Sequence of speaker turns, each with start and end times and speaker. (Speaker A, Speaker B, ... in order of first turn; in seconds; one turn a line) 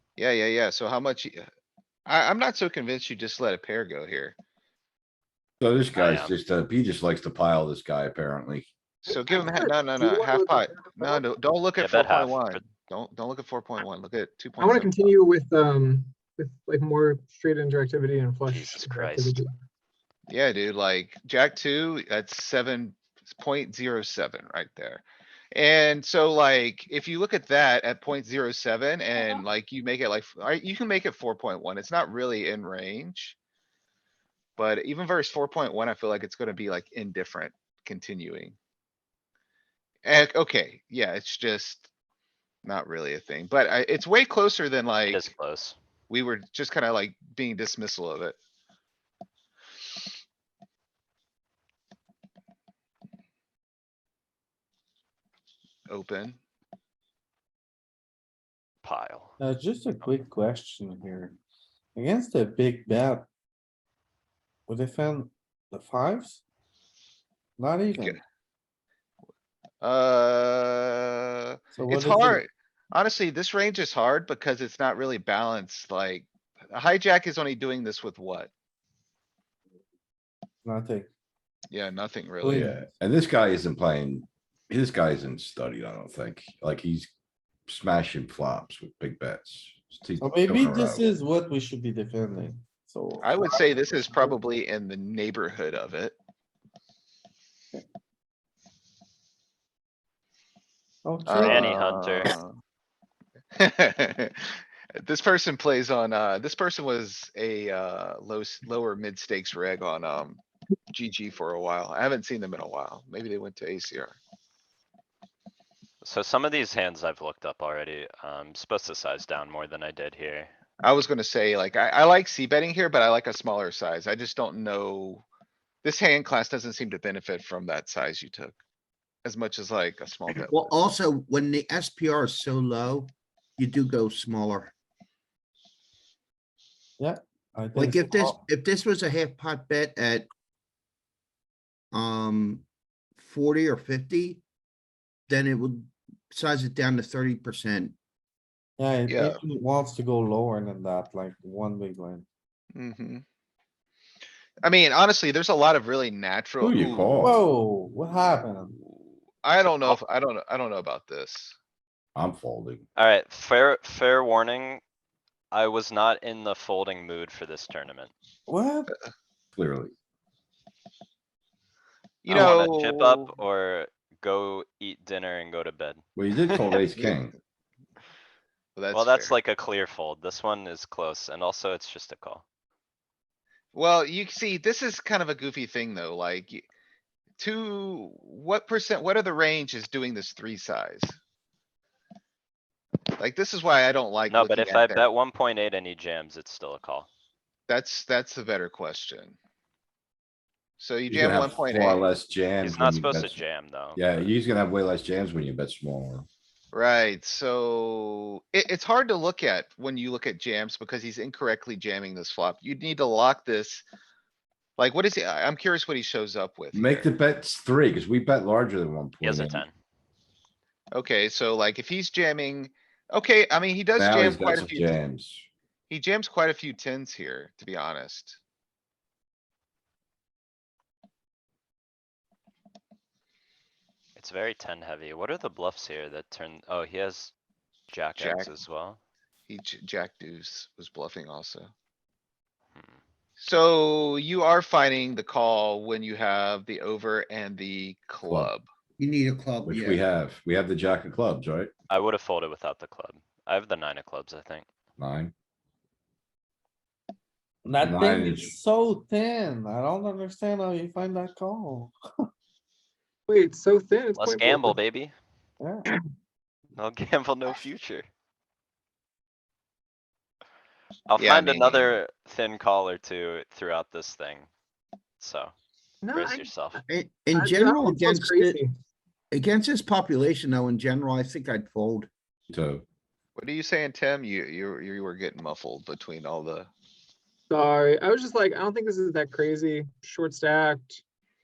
Speaker A: 0.2-1.4
Speaker A: 2.0-4.3
Speaker B: 5.6-8.7
Speaker C: 5.9-6.3
Speaker A: 9.1-15.1
Speaker D: 9.2-11.2
Speaker C: 11.8-12.6
Speaker D: 14.6-19.5
Speaker C: 18.5-19.4
Speaker A: 20.3-33.4
Speaker A: 34.6-38.5
Speaker A: 40.0-41.9
Speaker A: 42.6-45.3
Speaker C: 45.1-45.8
Speaker A: 46.1-48.4
Speaker A: 55.9-56.4
Speaker C: 58.8-59.3
Speaker E: 59.4-61.4
Speaker E: 61.9-63.3
Speaker E: 64.7-66.4
Speaker E: 67.6-68.2
Speaker A: 67.9-68.2
Speaker A: 69.8-78.5
Speaker E: 71.7-72.4
Speaker E: 80.6-81.1
Speaker A: 81.7-82.7
Speaker E: 82.4-82.9
Speaker B: 82.5-87.1
Speaker B: 87.7-91.0
Speaker E: 90.2-94.3
Speaker A: 93.2-96.2
Speaker E: 101.0-102.3
Speaker A: 101.2-102.5
Speaker C: 101.3-102.3
Speaker A: 103.5-114.2
Speaker C: 116.0-120.5
Speaker A: 120.8-125.2
Speaker A: 125.8-128.6
Speaker A: 129.2-130.7
Speaker F: 130.5-134.7
Speaker E: 137.0-138.4
Speaker F: 137.7-140.3
Speaker F: 141.9-142.6
Speaker F: 143.2-144.4
Speaker F: 145.3-147.9
Speaker E: 148.8-152.2
Speaker A: 149.1-149.4
Speaker A: 152.7-153.2
Speaker A: 154.6-157.4
Speaker B: 156.6-157.4
Speaker E: 157.2-158.8
Speaker A: 159.4-161.6
Speaker C: 159.6-160.0
Speaker B: 162.1-162.8
Speaker C: 162.9-164.8
Speaker C: 165.5-168.1
Speaker E: 168.5-168.9
Speaker B: 169.5-169.9
Speaker A: 172.2-173.2
Speaker C: 172.3-176.0
Speaker B: 176.2-177.3
Speaker A: 178.8-179.3
Speaker C: 178.9-182.4
Speaker A: 183.7-186.7
Speaker A: 187.4-191.2
Speaker A: 193.2-195.0
Speaker C: 194.3-197.1
Speaker A: 197.7-199.4
Speaker A: 200.8-202.0
Speaker B: 201.1-203.4
Speaker C: 202.6-204.2
Speaker B: 203.9-206.3
Speaker A: 206.7-213.8
Speaker A: 214.8-217.1
Speaker B: 216.7-219.6
Speaker C: 219.2-219.7
Speaker A: 220.9-224.9
Speaker B: 223.9-225.5
Speaker A: 225.9-228.4
Speaker C: 234.2-237.3
Speaker C: 237.9-239.0
Speaker A: 238.2-238.5
Speaker A: 239.5-241.7
Speaker A: 243.4-248.7
Speaker B: 248.2-248.5
Speaker F: 249.0-250.0
Speaker B: 249.7-251.7
Speaker C: 251.9-254.6
Speaker B: 255.0-255.3
Speaker E: 257.6-261.9
Speaker B: 257.8-258.5
Speaker D: 263.3-264.8
Speaker C: 264.1-265.1
Speaker E: 265.6-265.9
Speaker C: 266.8-268.1
Speaker C: 271.1-274.5
Speaker A: 271.2-271.9
Speaker C: 275.2-275.5
Speaker D: 276.0-276.8
Speaker C: 276.1-276.8
Speaker F: 276.9-278.6
Speaker D: 277.3-278.7
Speaker F: 279.3-282.1
Speaker B: 282.5-282.8
Speaker A: 283.4-286.7
Speaker D: 287.5-291.0